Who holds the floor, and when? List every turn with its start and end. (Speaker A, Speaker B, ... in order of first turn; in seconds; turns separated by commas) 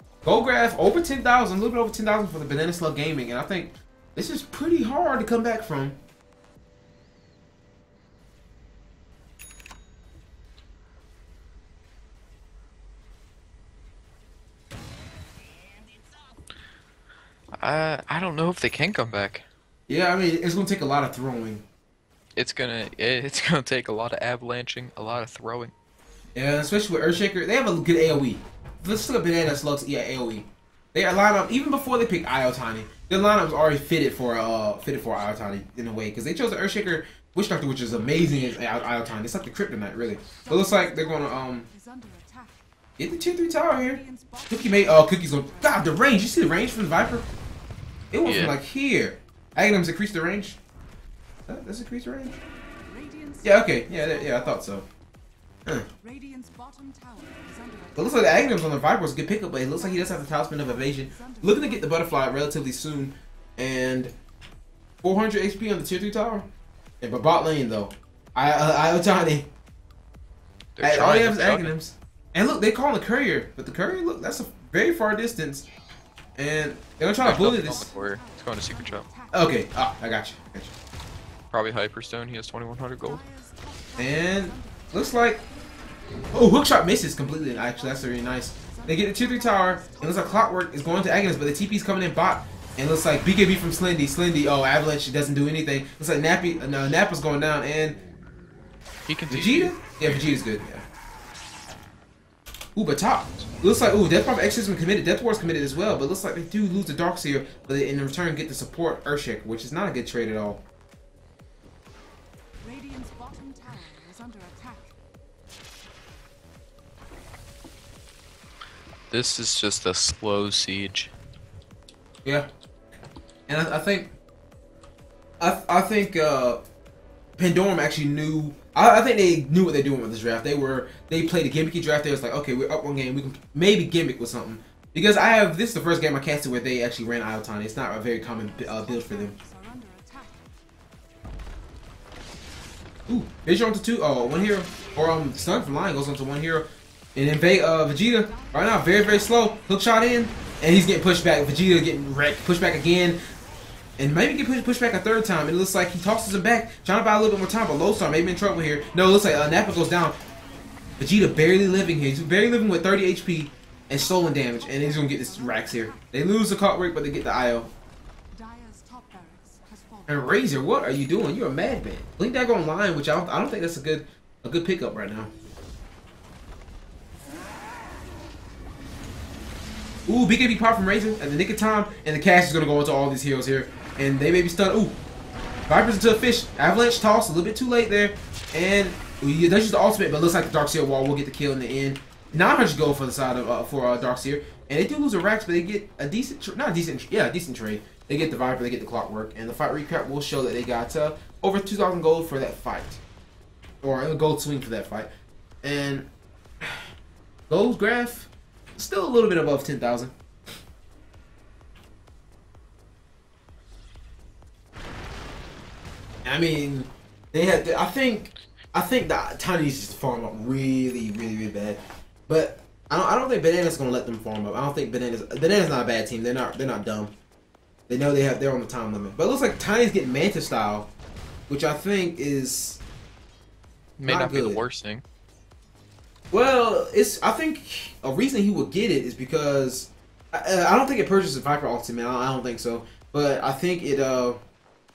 Speaker A: 0.2-6.0, Speaker B: 17.6-19.4, Speaker A: 19.9-21.6, Speaker B: 22.4-25.7, Speaker A: 26.3-41.7, Speaker C: 38.6-38.9, Speaker C: 40.2-42.7, Speaker A: 43.0-47.2, Speaker C: 43.7-46.7, Speaker A: 48.1-50.6, Speaker B: 48.2-48.5, Speaker A: 51.5-52.4, Speaker C: 52.8-54.9, Speaker A: 53.4-54.8, Speaker C: 55.9-62.4, Speaker A: 58.0-64.1, Speaker A: 65.0-66.5, Speaker A: 67.0-69.5, Speaker B: 70.8-71.7, Speaker A: 70.8-75.7, Speaker A: 76.3-77.9, Speaker B: 77.2-79.0, Speaker C: 77.6-79.7, Speaker A: 79.3-80.7, Speaker B: 81.5-83.2, Speaker C: 83.0-85.2, Speaker A: 84.0-85.4, Speaker A: 86.3-98.0, Speaker C: 87.2-91.4, Speaker B: 99.1-100.4, Speaker A: 99.3-100.8, Speaker A: 102.7-110.6, Speaker C: 112.6-115.0, Speaker B: 119.1-121.1, Speaker A: 123.5-124.1, Speaker A: 125.4-126.6, Speaker A: 127.4-139.3, Speaker C: 138.1-140.5, Speaker A: 143.1-153.2, Speaker C: 148.0-149.6, Speaker A: 154.0-160.2, Speaker A: 161.0-167.7, Speaker C: 163.9-166.2, Speaker C: 168.3-171.8, Speaker A: 170.1-175.3, Speaker A: 180.1-185.0, Speaker A: 185.7-203.0, Speaker A: 203.8-205.1, Speaker A: 205.6-206.1, Speaker A: 206.6-206.9, Speaker A: 207.5-210.1, Speaker A: 216.2-227.1, Speaker A: 227.9-230.9, Speaker A: 231.5-232.8, Speaker B: 234.0-235.0, Speaker A: 234.0-234.6, Speaker A: 236.3-244.4